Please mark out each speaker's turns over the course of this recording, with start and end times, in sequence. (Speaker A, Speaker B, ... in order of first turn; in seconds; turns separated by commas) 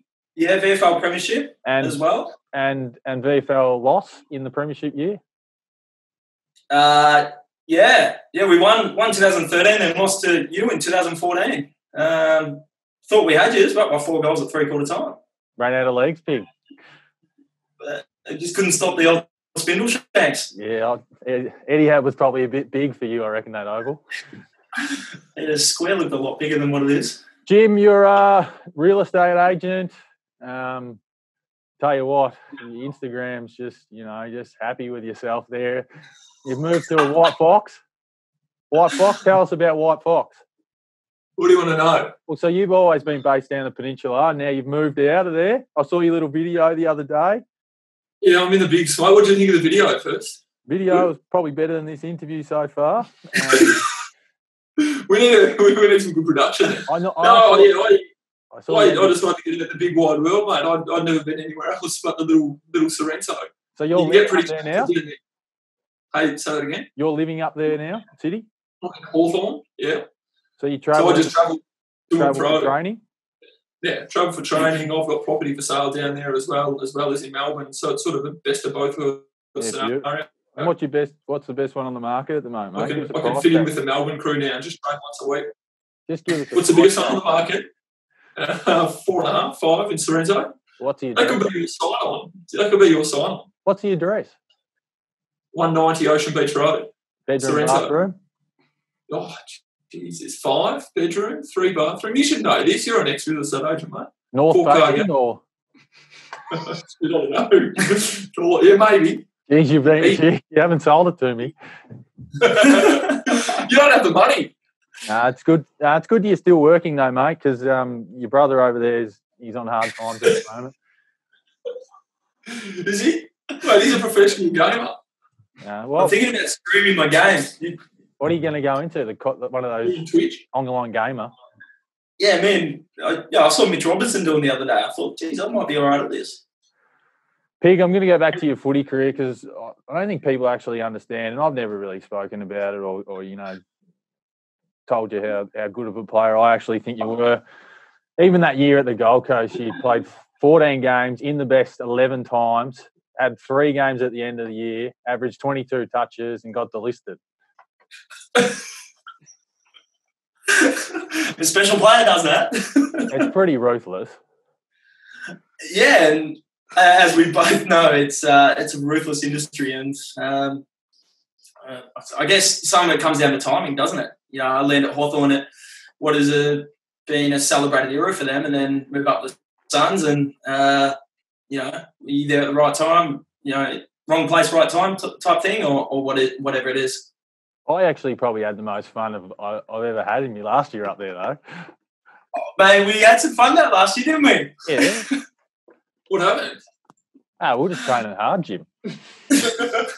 Speaker A: 0.3-2.3, Speaker B: 1.6-2.0, Speaker B: 2.5-5.2, Speaker A: 6.7-15.2, Speaker B: 15.6-16.5, Speaker A: 17.8-20.5, Speaker B: 20.5-24.0, Speaker A: 25.4-27.2, Speaker B: 27.4-31.0, Speaker B: 31.8-35.9, Speaker B: 36.4-37.8, Speaker B: 38.7-40.4, Speaker C: 41.4-42.1, Speaker B: 42.3-47.4, Speaker C: 48.2-50.4, Speaker B: 50.7-53.9, Speaker C: 53.5-53.8, Speaker C: 54.8-58.1, Speaker B: 56.9-57.7, Speaker B: 58.5-59.2, Speaker C: 58.7-65.2, Speaker B: 63.8-64.9, Speaker C: 66.1-66.9, Speaker B: 67.0-68.5, Speaker C: 68.8-70.0, Speaker B: 70.6-71.4, Speaker C: 70.9-72.7, Speaker B: 72.1-73.0, Speaker C: 73.8-80.7, Speaker B: 79.6-83.7, Speaker C: 82.7-85.5, Speaker B: 86.1-87.4, Speaker C: 86.5-87.7, Speaker C: 88.3-90.5, Speaker B: 90.8-91.5, Speaker C: 91.1-93.5, Speaker B: 93.7-94.3, Speaker C: 95.5-98.0, Speaker B: 97.3-98.2, Speaker C: 99.1-105.1, Speaker B: 104.3-105.4, Speaker C: 106.5-109.2, Speaker B: 109.5-111.5, Speaker C: 112.4-114.5, Speaker B: 115.1-120.7, Speaker C: 122.5-125.0, Speaker B: 125.6-126.1, Speaker A: 126.0-127.8, Speaker B: 128.2-131.3, Speaker C: 129.8-130.4, Speaker A: 132.2-136.4, Speaker B: 137.6-143.6, Speaker B: 144.9-147.4, Speaker B: 148.2-157.2, Speaker A: 160.5-163.0, Speaker B: 163.1-164.2, Speaker A: 165.7-170.6, Speaker A: 171.6-175.5, Speaker A: 176.0-181.0, Speaker A: 181.5-187.1, Speaker B: 187.7-191.4, Speaker A: 192.5-195.1, Speaker B: 194.7-195.1, Speaker C: 196.1-196.6, Speaker B: 197.4-198.7